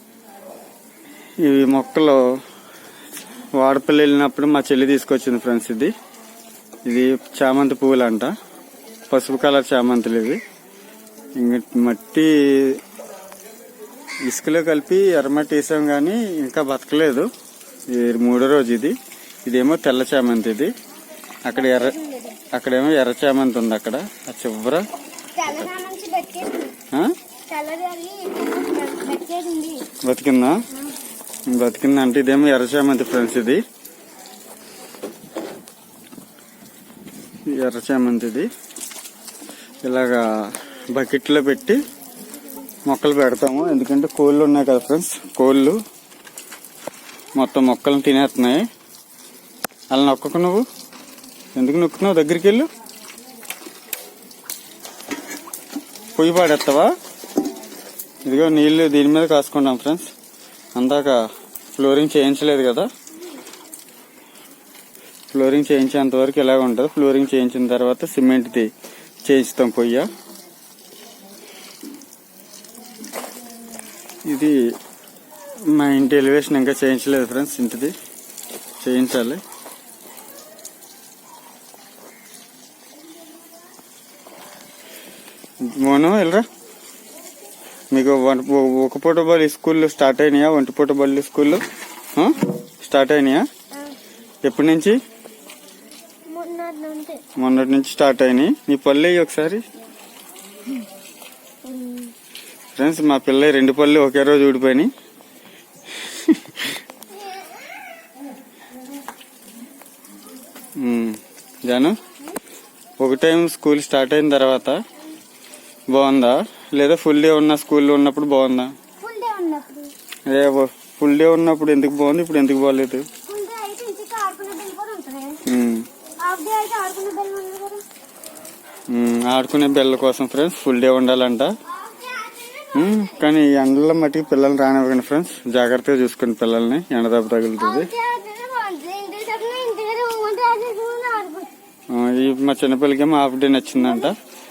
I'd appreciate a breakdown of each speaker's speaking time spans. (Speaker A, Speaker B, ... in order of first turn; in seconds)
Speaker A: 1.4-2.4, 3.5-5.9, 6.8-8.3, 9.1-10.4, 11.4-12.8, 14.2-17.3, 17.9-20.7, 21.4-21.9, 22.5-24.9, 30.0-30.6, 31.5-33.6, 37.5-38.5, 39.9-41.8, 42.9-45.8, 47.4-48.7, 49.9-50.7, 51.5-52.7, 56.1-56.9, 58.2-60.1, 60.8-61.2, 61.7-62.9, 65.3-68.7, 69.2-70.1, 74.3-74.7, 75.7-77.9, 78.8-79.4, 85.7-86.5, 87.9-91.6, 92.1-93.5, 94.4-95.0, 97.4-99.6, 102.8-104.9, 106.0-106.7, 110.8-112.0, 113.0-114.8, 115.9-118.7, 120.3-123.1, 125.4-125.9, 128.9-131.6, 132.7-137.9, 141.9-144.2
Speaker B: 21.5-22.4, 25.3-26.7, 27.5-29.9, 96.3-97.2, 101.7-102.1, 119.0-119.9, 123.2-125.4, 126.2-127.8, 131.7-133.0, 137.6-141.5